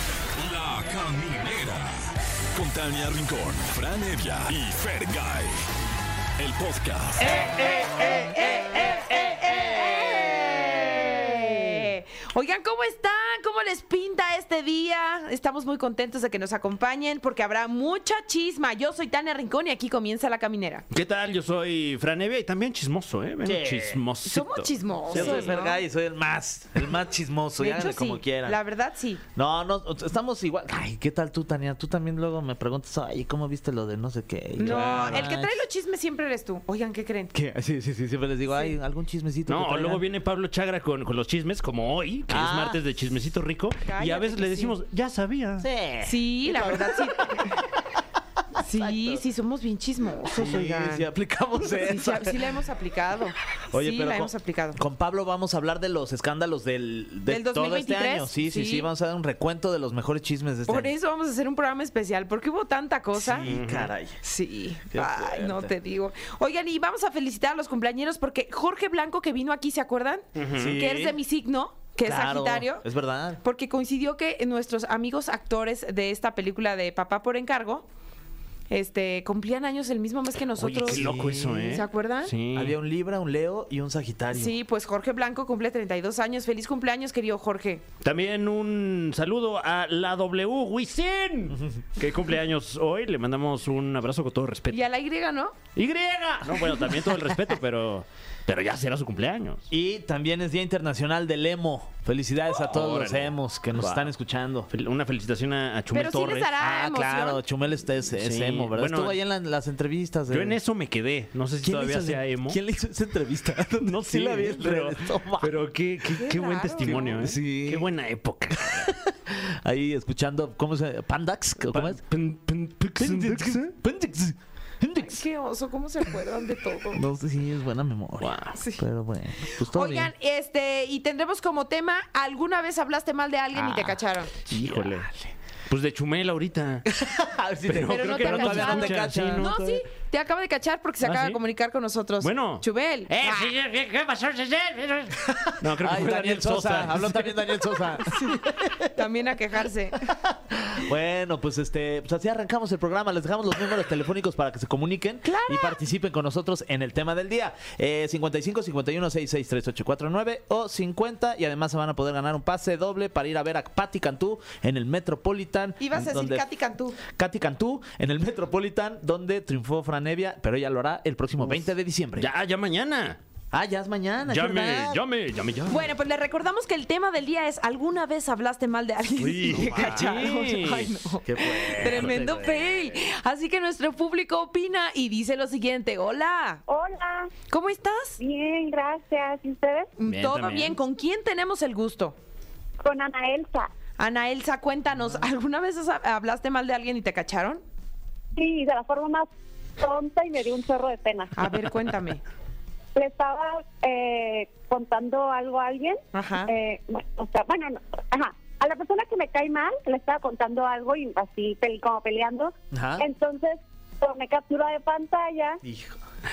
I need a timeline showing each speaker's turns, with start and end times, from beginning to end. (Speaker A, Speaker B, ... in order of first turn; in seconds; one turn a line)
Speaker A: 0.4-1.9
Speaker A: 2.5-5.5
Speaker A: 6.4-7.3
Speaker B: 7.2-11.1
Speaker C: 7.2-20.8
Speaker D: 20.9-25.6
Speaker B: 23.4-24.0
Speaker C: 24.2-25.8
Speaker B: 25.1-28.6
Speaker C: 27.6-29.2
Speaker B: 29.3-35.5
Speaker C: 34.6-37.3
Speaker D: 34.6-35.3
Speaker B: 37.3-40.0
Speaker D: 39.5-45.7
Speaker B: 42.3-42.8
Speaker C: 43.8-44.8
Speaker B: 45.6-47.5
Speaker C: 46.0-47.6
Speaker C: 48.5-51.1
Speaker B: 48.6-49.2
Speaker B: 50.2-52.4
Speaker C: 51.8-54.8
Speaker B: 53.7-60.9
Speaker C: 57.3-58.9
Speaker C: 60.7-63.5
Speaker B: 63.1-64.2
Speaker D: 63.5-63.9
Speaker C: 64.2-72.8
Speaker B: 64.9-65.7
Speaker D: 70.3-70.8
Speaker B: 70.5-71.2
Speaker B: 72.0-73.4
Speaker C: 73.4-77.8
Speaker C: 78.7-81.1
Speaker D: 80.6-82.8
Speaker B: 80.9-81.8
Speaker C: 81.7-82.3
Speaker B: 82.5-84.5
Speaker C: 84.3-87.8
Speaker D: 88.0-94.8
Speaker C: 94.7-95.6
Speaker D: 95.7-99.7
Speaker B: 96.4-96.8
Speaker B: 99.7-104.7
Speaker D: 102.6-104.1
Speaker D: 104.7-106.6
Speaker C: 105.9-107.4
Speaker B: 106.6-110.6
Speaker D: 108.2-109.2
Speaker D: 110.3-112.6
Speaker B: 111.6-115.6
Speaker D: 113.8-118.9
Speaker C: 116.2-117.2
Speaker B: 116.8-117.9
Speaker B: 118.6-122.0
Speaker D: 121.7-123.7
Speaker B: 123.0-125.2
Speaker C: 125.0-127.0
Speaker B: 126.9-130.1
Speaker D: 128.2-128.5
Speaker C: 128.5-128.8
Speaker C: 129.4-134.3
Speaker B: 133.5-134.0
Speaker D: 134.5-135.1
Speaker B: 134.5-134.8
Speaker D: 135.7-136.8
Speaker B: 136.9-139.5
Speaker D: 137.7-139.8
Speaker C: 137.9-143.5
Speaker D: 141.0-141.4
Speaker D: 142.2-147.3
Speaker B: 145.3-148.9
Speaker C: 148.1-148.4
Speaker C: 148.9-150.1
Speaker B: 150.1-166.4
Speaker C: 155.2-155.8
Speaker C: 165.8-167.0
Speaker B: 167.1-172.3
Speaker D: 172.2-173.2
Speaker B: 173.5-175.0
Speaker D: 174.2-175.9
Speaker C: 175.7-186.6
Speaker B: 179.2-180.2
Speaker D: 179.4-180.9
Speaker B: 181.2-182.6
Speaker D: 181.4-182.6
Speaker E: 186.7-187.3
Speaker C: 187.5-188.2
Speaker E: 188.2-189.9
Speaker C: 190.0-192.2
Speaker D: 190.1-190.8
Speaker E: 192.8-193.7
Speaker C: 194.0-197.6
Speaker E: 198.3-201.4
Speaker C: 201.3-202.2
Speaker E: 202.9-215.6
Speaker C: 206.1-206.5
Speaker B: 212.7-213.1
Speaker B: 215.6-216.0